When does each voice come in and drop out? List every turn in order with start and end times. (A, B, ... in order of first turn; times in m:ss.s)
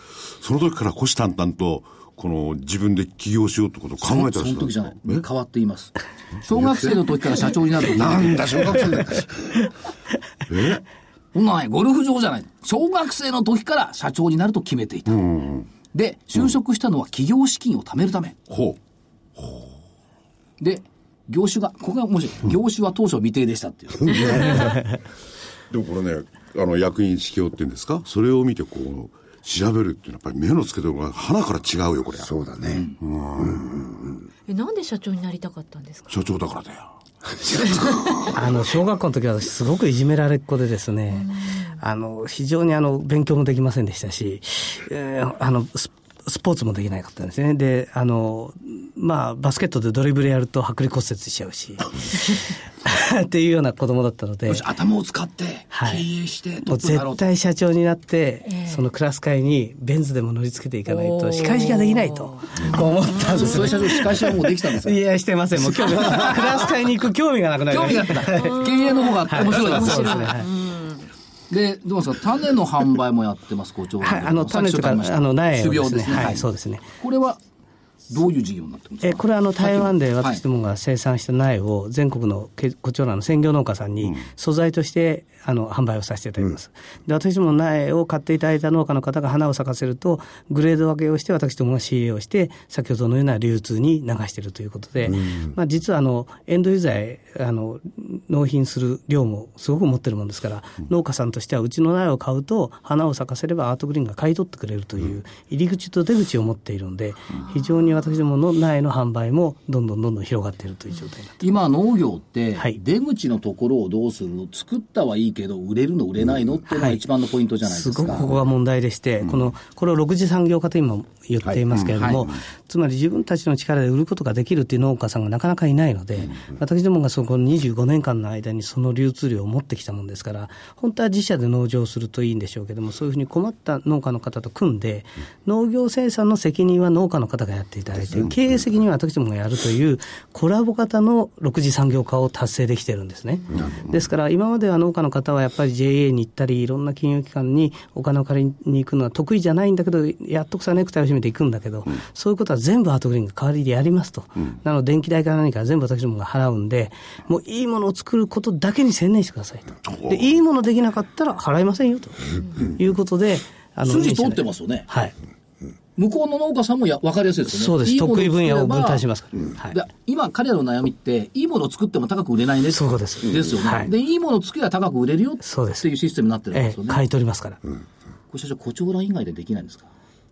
0:00.4-0:05.2 A
0:04.0-0:08.6 B
0:06.5-0:07.1 A
0:07.8-0:09.2 A
0:08.1-0:09.4 C
0:10.5-0:10.8 A
0:11.3-0:15.3 B
0:15.1-0:15.7 A
0:15.9-0:18.4 B
0:18.5-0:18.8 A
0:19.4-0:19.7 A
0:20.6-0:24.7 B
0:25.7-0:32.3 A
0:32.2-0:34.2 C
0:32.7-0:33.0 B
0:33.0-0:33.8 A
0:34.5-0:36.1 D
0:36.1-0:36.9 A
0:38.2-0:54.6 E
0:41.2-0:41.7 D
0:54.5-0:57.3 B
0:55.7-0:56.1 E
0:56.6-1:10.5 E
1:00.9-1:02.3 D
1:02.7-1:05.0 B
1:05.7-1:06.7 B
1:07.7-1:10.3 B
1:09.3-1:10.4 D
1:11.5-1:16.4 B
1:14.0-1:16.9 E
1:17.0-1:17.4 B
1:18.1-1:20.4 B
1:19.0-1:51.4 E
1:35.1-1:35.6 C
1:51.4-1:58.3 B
1:56.7-1:57.0 E
1:57.7-2:45.2 E
2:01.7-2:02.2 A
2:02.0-2:02.2 B
2:39.9-2:40.2 A
2:43.9-2:44.9 B
2:46.0-2:49.0 B
2:47.5-2:49.8 E
2:49.7-2:57.0 B
2:52.7-2:53.9 E
2:55.4-2:55.9 E
2:56.5-2:57.6 E
2:58.3-2:59.9 B